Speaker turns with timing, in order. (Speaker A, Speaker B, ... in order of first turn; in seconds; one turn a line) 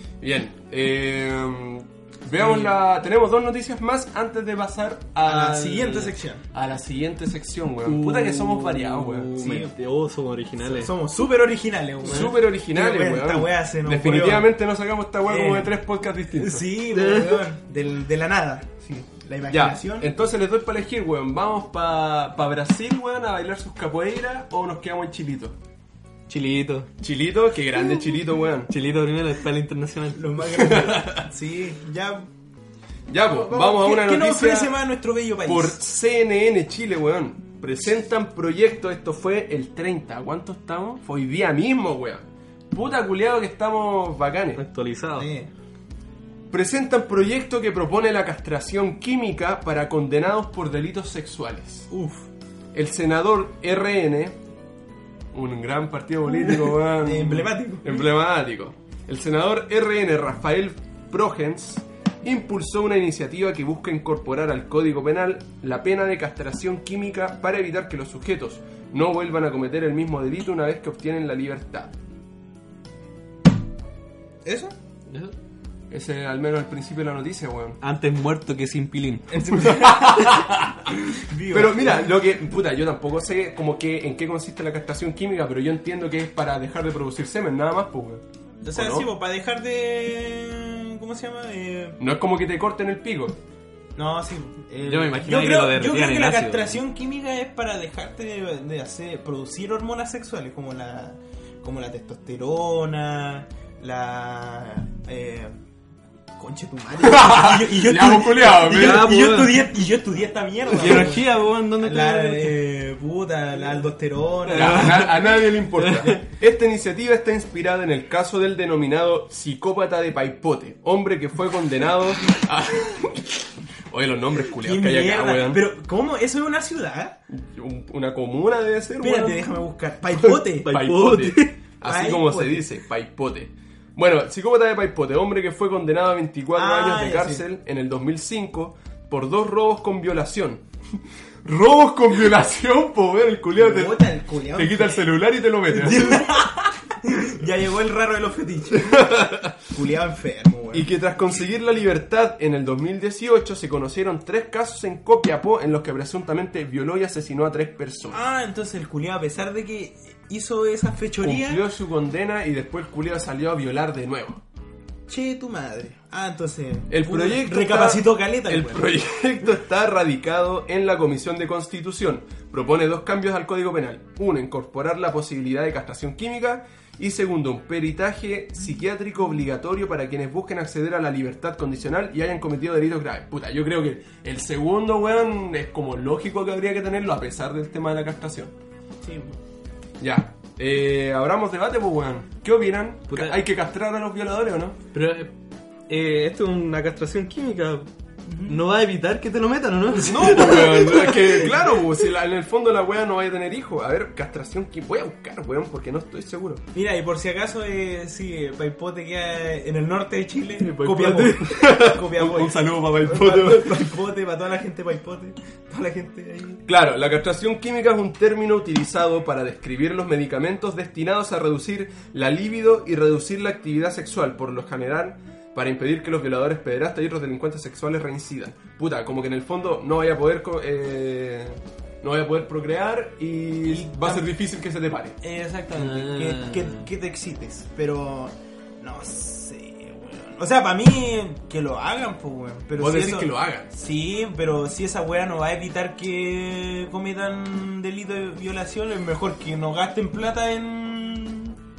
Speaker A: 0.2-9.4
Speaker B: 5.2-6.4
Speaker C: 7.8-10.9
Speaker B: 9.4-9.7
Speaker B: 10.6-14.5
Speaker A: 12.0-16.7
Speaker B: 15.2-15.8
Speaker B: 16.4-20.1
Speaker C: 16.9-17.4
Speaker A: 19.5-25.6
Speaker C: 26.3-26.9
Speaker A: 27.0-28.7
Speaker C: 28.7-30.4
Speaker B: 30.1-32.3
Speaker A: 30.5-31.3
Speaker A: 33.1-34.8
Speaker B: 33.3-35.8
Speaker A: 35.5-44.6
Speaker C: 44.6-45.3
Speaker B: 45.1-45.5
Speaker A: 46.5-51.9
Speaker B: 51.9-52.3
Speaker A: 52.7-54.4
Speaker A: 55.3-71.9
Speaker B: 56.4-58.0
Speaker B: 74.4-74.8
Speaker C: 75.1-75.3
Speaker A: 75.9-77.8
Speaker C: 77.8-79.5
Speaker B: 79.3-80.4
Speaker A: 79.6-80.9
Speaker B: 81.1-82.1
Speaker A: 81.5-89.1
Speaker B: 88.6-92.0
Speaker A: 92.0-93.4
Speaker B: 94.0-105.5
Speaker C: 94.8-96.8
Speaker B: 106.4-115.0
Speaker A: 107.0-109.1
Speaker C: 108.7-109.6
Speaker C: 110.7-112.6
Speaker C: 114.5-116.2
Speaker A: 114.5-125.6
Speaker B: 124.5-127.2
Speaker A: 127.3-129.5
Speaker B: 129.0-130.8
Speaker A: 130.2-140.6
Speaker C: 130.6-131.6
Speaker B: 131.8-132.7
Speaker B: 136.6-137.4
Speaker A: 141.4-146.3
Speaker B: 143.6-145.0
Speaker B: 145.7-150.9
Speaker A: 148.8-149.6
Speaker A: 150.7-158.2
Speaker B: 158.1-161.6
Speaker A: 161.2-164.4
Speaker B: 165.1-168.9
Speaker A: 166.9-188.5
Speaker B: 189.0-189.4
Speaker A: 190.0-194.8
Speaker C: 193.1-193.4
Speaker C: 194.9-195.3
Speaker C: 195.9-197.9
Speaker B: 198.2-198.6
Speaker C: 198.5-201.2
Speaker A: 200.0-206.6
Speaker B: 200.2-200.7
Speaker B: 206.7-216.6
Speaker C: 210.6-211.4
Speaker A: 210.9-213.9
Speaker A: 216.7-235.2
Speaker B: 233.7-234.3
Speaker B: 235.2-251.6
Speaker C: 235.7-236.9
Speaker A: 242.8-243.7